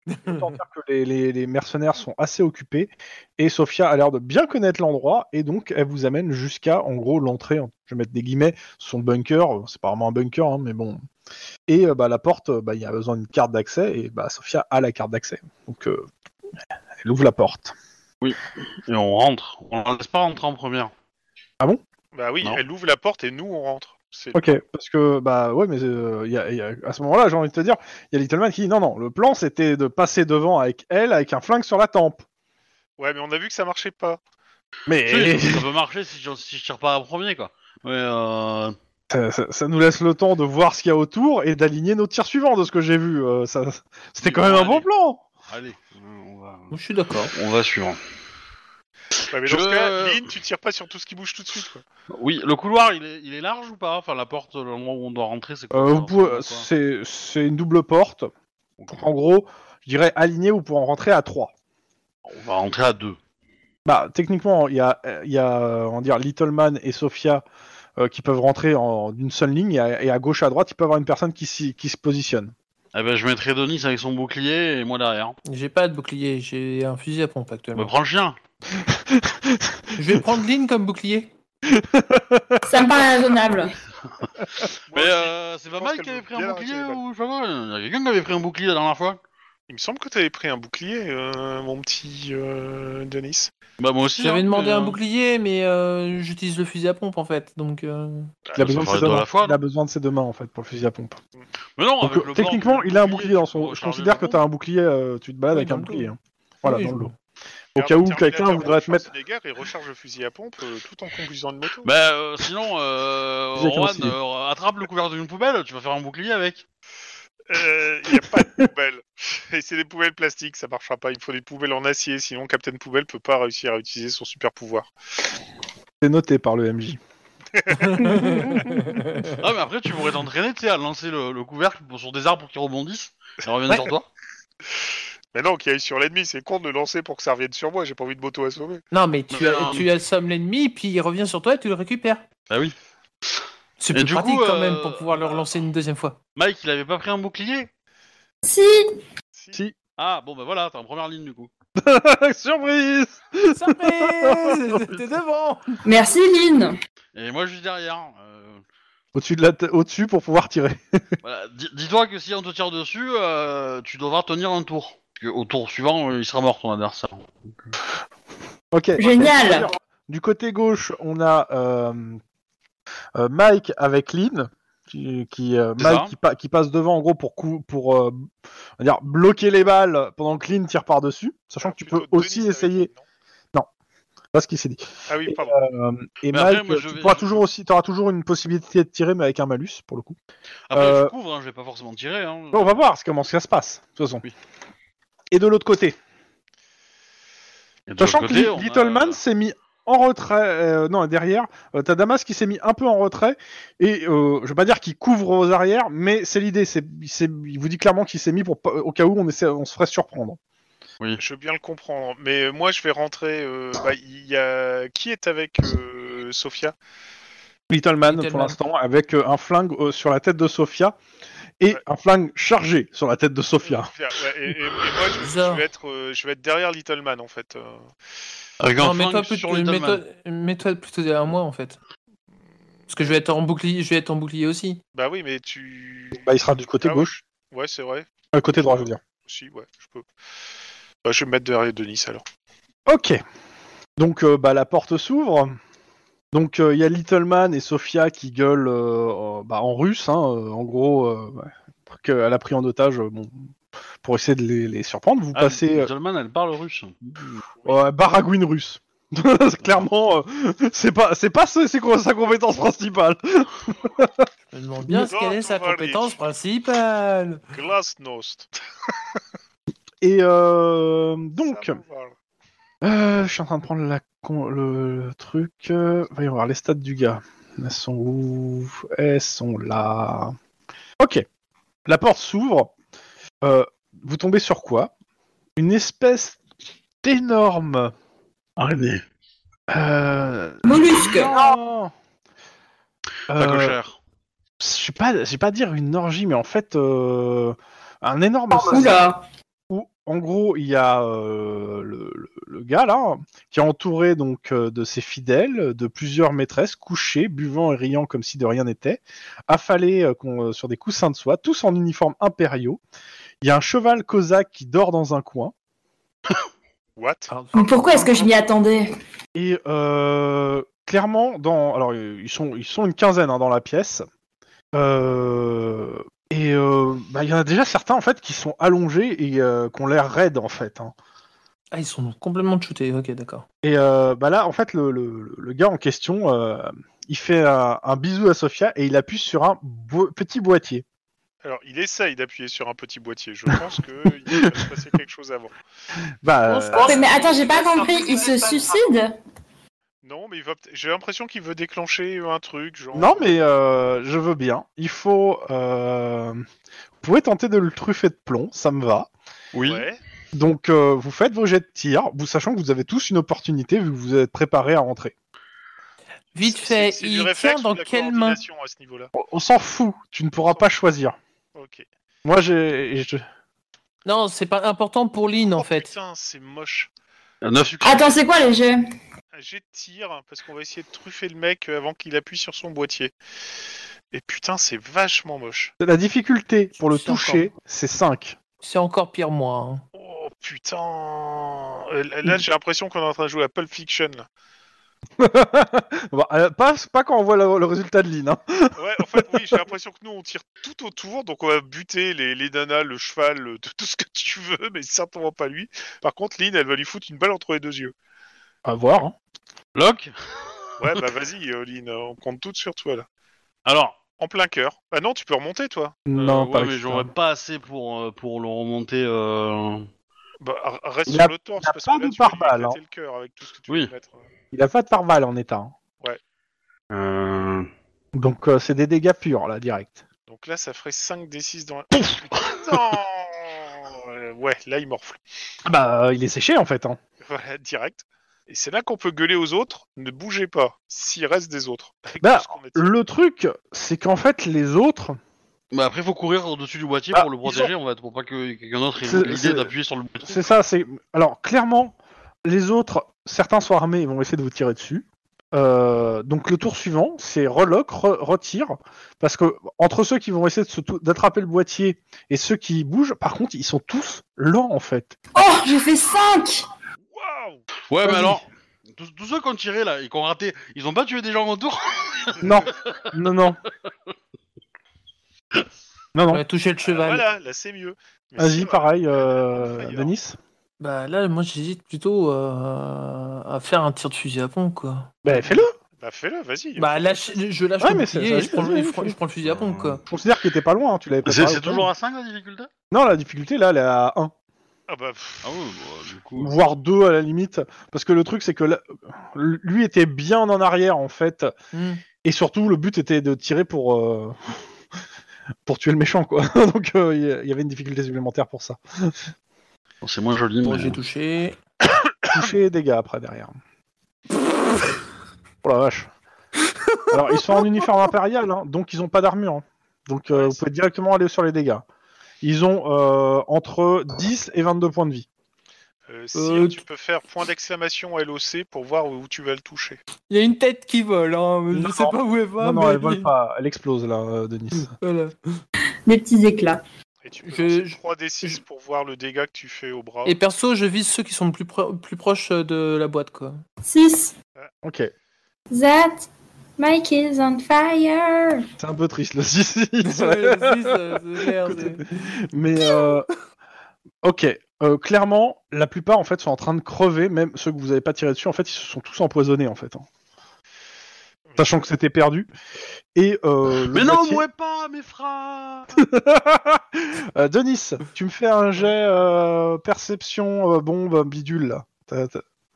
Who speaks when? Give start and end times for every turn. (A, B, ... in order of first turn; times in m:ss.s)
0:00.1-0:00.4 A
0:00.2-0:11.0 B
0:11.7-0:16.1 B
0:17.0-0:17.7 B
0:18.2-0:20.9 C
0:22.1-0:24.5 D
0:24.3-0:32.2 B
0:33.0-0:34.2 D
0:34.9-0:35.6 B
0:35.1-0:38.8 C
0:39.1-0:45.2 B
0:44.2-0:44.9 C
0:45.5-0:46.7 C
0:46.7-0:47.3 A
0:47.3-0:48.0 C
0:49.3-0:51.8 D
0:49.4-0:50.2 C
0:52.1-0:56.6 C
0:55.7-0:58.3 B
0:58.9-1:01.5 B
1:02.3-1:03.2 C
1:03.8-1:07.4 B
1:08.0-1:12.5 B
1:12.9-1:15.4 C
1:15.4-1:17.9 A
1:17.7-1:18.4 C
1:18.8-1:19.8 B
1:20.0-1:21.3 A
1:21.6-1:22.8 B
1:22.6-1:23.7 E
1:24.6-1:29.2 C
1:24.9-1:27.0 D
1:29.7-1:33.5 D
1:33.8-1:35.0 C
1:34.2-1:38.3 A
1:38.5-1:38.8 D
1:38.6-1:41.2 B
1:38.6-1:39.6 C
1:41.8-1:44.4 C
1:42.0-1:47.1 B
1:45.5-1:46.1 A
1:46.6-1:47.1 A
1:47.7-1:49.1 B
1:47.8-1:51.9 D
1:51.8-1:56.6 C
1:53.6-1:54.1 B
1:57.5-2:04.9 D
2:06.0-2:07.0 B
2:07.5-2:08.1 D
2:07.8-2:09.4 A
2:09.3-2:14.1 C
2:15.3-2:18.8 D
2:18.9-2:22.2 A
2:19.3-2:19.9 C
2:22.5-2:22.7 C
2:23.8-2:26.2 A
2:23.9-2:25.4 C
2:26.4-2:27.7 C
2:28.4-2:28.9 E
2:29.3-2:29.6 D
2:30.0-2:31.5 C
2:31.8-2:35.0 B
2:33.5-2:35.8 A
2:35.8-2:36.8 E
2:37.1-2:38.6 C
2:39.1-2:41.2 B
2:41.2-2:47.8 C
2:48.7-2:52.2 B
2:49.0-2:49.7 E
2:53.1-3:02.9 B
2:55.8-2:56.1 C
3:01.6-3:03.0 D
3:04.3-3:10.2 B
3:05.1-3:05.6 D
3:06.3-3:07.4 C
3:10.7-3:12.7 C
3:10.7-3:11.1 B
3:12.5-3:14.2 B
3:15.3-3:16.0 B
3:17.9-3:19.2 C
3:18.0-3:30.4 B
3:31.2-3:36.7 D
3:37.7-3:41.0 B
3:38.0-3:38.6 A
3:41.6-3:43.9 B
3:43.6-3:47.8 D
3:45.2-3:45.6 A
3:48.6-3:50.0 C
3:48.8-3:51.8 A
3:52.9-3:54.8 A
3:55.0-3:56.2 D
3:56.2-3:57.2 B
3:56.8-4:00.1 D
3:58.3-3:59.0 B
4:01.0-4:02.2 D
4:02.9-4:03.2 B
4:04.0-4:05.6 B
4:06.3-4:13.5 B
4:14.0-4:15.9 B
4:15.3-4:17.4 C
4:17.6-4:24.3 B
4:24.5-4:27.4 A
4:24.9-4:26.2 D
4:27.5-4:28.5 D
4:30.0-4:31.8 B
4:31.4-4:32.1 D
4:32.8-4:40.3 B
4:41.0-4:41.2 B
4:41.9-4:42.7 B
4:43.4-4:44.9 B
4:45.6-4:46.4 B
4:47.0-4:47.9 B
4:48.6-4:49.0 C
4:49.7-4:51.9 B
4:50.6-4:51.5 E
4:53.3-4:53.8 B
4:53.3-4:54.0 C
4:54.6-4:59.0 B
4:58.5-4:59.2 E
4:59.7-5:12.8 B
5:13.4-5:15.5 B
5:17.0-5:17.3 D
5:17.3-5:18.3 A
5:17.5-5:18.9 E
5:19.3-5:24.0 B
5:24.7-5:30.9 B
5:31.7-5:33.4 A
5:33.6-5:40.8 B
5:41.4-5:45.5 D
5:44.3-5:44.6 B
5:46.2-5:47.0 B
5:46.4-5:48.2 A
5:46.8-5:49.1 E
5:50.0-5:53.3 D
5:52.9-5:56.4 B
5:57.0-5:59.1 B
5:59.5-5:59.8 C
5:59.6-6:00.0 D
6:00.3-6:05.1 B
6:06.3-6:08.4 A
6:06.4-6:09.1 D
6:09.1-6:11.2 B
6:11.6-6:11.9 D
6:12.2-6:13.2 B
6:14.0-6:15.9 A
6:15.4-6:16.9 D
6:17.4-6:18.1 C
6:17.8-6:18.8 E
6:19.3-6:23.1 D
6:24.1-6:25.7 D
6:25.8-6:28.4 B
6:26.8-6:27.5 A
6:28.6-6:29.8 A
6:30.0-6:34.3 D
6:35.2-6:39.2 B
6:38.8-6:48.0 D
6:48.6-6:49.1 B
6:49.8-6:50.6 C
6:50.8-6:53.0 D
6:53.6-6:54.0 C
6:54.2-6:56.0 D
6:56.1-6:57.1 B
6:56.2-6:59.9 C
7:00.4-7:04.2 D
7:01.1-7:02.8 B
7:04.5-7:05.8 B
7:06.9-7:07.7 C
7:08.1-7:10.0 B
7:10.3-7:15.2 D
7:15.6-7:17.0 B
7:17.2-7:22.9 D
7:22.2-7:25.2 B
7:25.7-7:30.4 C
7:27.1-7:27.7 B
7:29.0-7:29.7 B
7:30.2-7:45.1 B
7:45.3-7:46.6 E
7:47.1-7:47.6 D
7:47.9-7:53.1 C
7:48.0-7:48.4 B
7:52.4-7:53.6 B
7:56.1-7:56.4 B
7:56.3-7:57.2 A
7:56.8-8:00.1 D
7:58.4-8:00.4 B
8:00.8-8:05.6 A
8:05.2-8:05.7 B
8:06.0-8:07.4 D
8:06.8-8:10.0 A
8:07.8-8:09.2 B
8:09.4-8:10.0 C
8:10.1-8:11.9 B
8:11.2-8:12.7 C
8:12.9-8:14.3 B
8:14.9-8:15.6 D
8:15.4-8:16.5 C
8:16.4-8:21.5 B
8:21.7-8:22.0 A
8:22.2-8:24.6 B
8:25.6-8:29.2 B
8:30.0-8:31.0 C
8:30.6-8:31.6 A
8:32.3-8:33.6 B
8:35.6-8:36.1 B
8:37.1-8:41.8 B
8:40.3-8:40.6 D
8:42.4-8:45.3 B
8:46.1-8:50.0 D
8:46.3-8:46.8 A
8:50.3-8:53.3 A
8:51.7-8:55.0 B
8:54.8-8:55.6 A
8:56.0-8:56.8 E
8:57.2-9:00.4 D
8:57.4-8:58.6 A
9:00.2-9:03.6 A
9:03.8-9:04.3 E
9:04.8-9:05.1 B
9:05.7-9:08.6 E
9:08.8-9:13.3 B
9:10.0-9:12.4 A
9:14.2-9:20.0 B
9:21.5-9:21.7 D
9:21.6-9:22.5 B
9:23.1-9:24.4 B
9:23.9-9:26.0 C
9:25.9-9:32.4 B